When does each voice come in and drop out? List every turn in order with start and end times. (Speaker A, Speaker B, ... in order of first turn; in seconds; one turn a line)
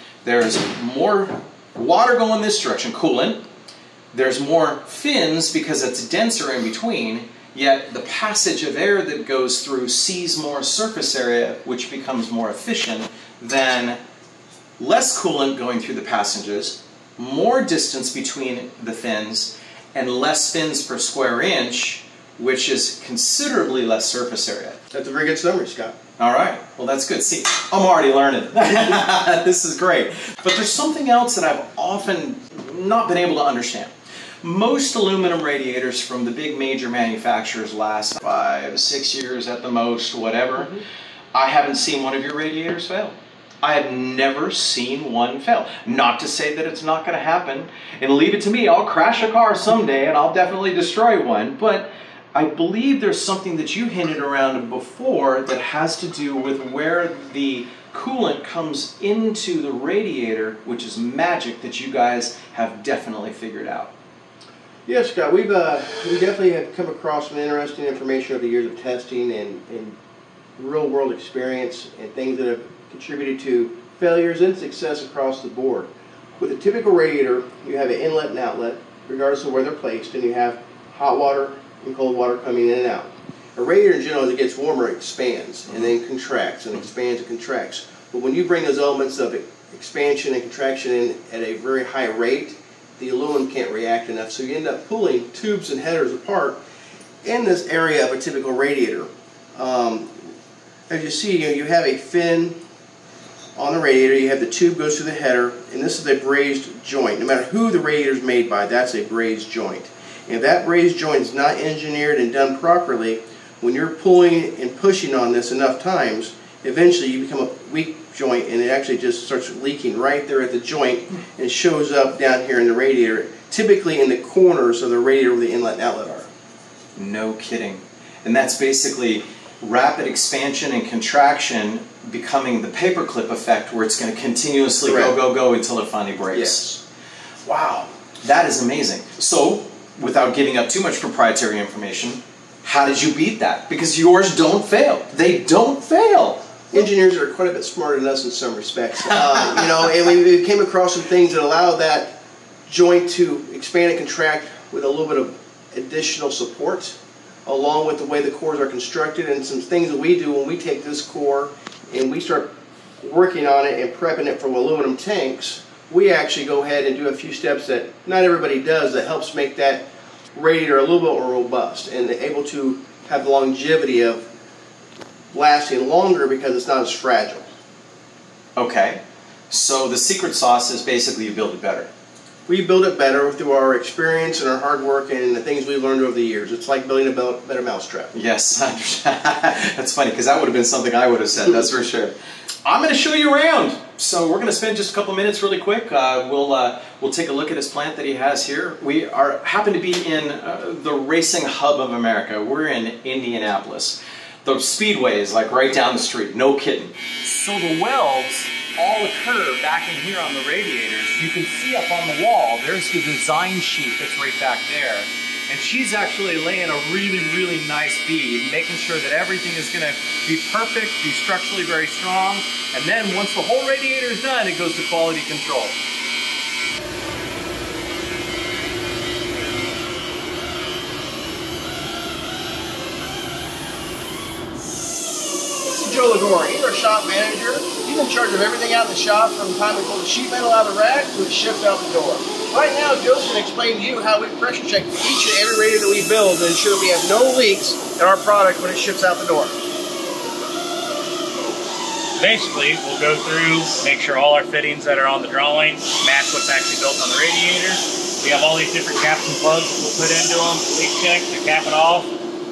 Speaker A: 0.2-3.4
Speaker A: 4.1-14.0
Speaker A: 14.8-24.8
Speaker B: 24.9-26.0
Speaker A: 26.2-33.9
Speaker A: 34.4-40.8
Speaker A: 41.3-63.9
Speaker B: 64.8-69.9
Speaker B: 70.6-96.6
Speaker B: 97.2-100.2
Speaker B: 100.9-102.5
Speaker B: 103.5-126.3
Speaker A: 127.0-136.7
Speaker B: 134.8-135.1
Speaker B: 136.3-136.8
Speaker A: 137.4-146.8
Speaker B: 146.7-174.2
Speaker B: 175.3-177.5
Speaker A: 178.6-181.9
Speaker B: 182.5-188.1
Speaker A: 188.1-225.8
Speaker B: 235.7-249.6
Speaker C: 252.2-262.1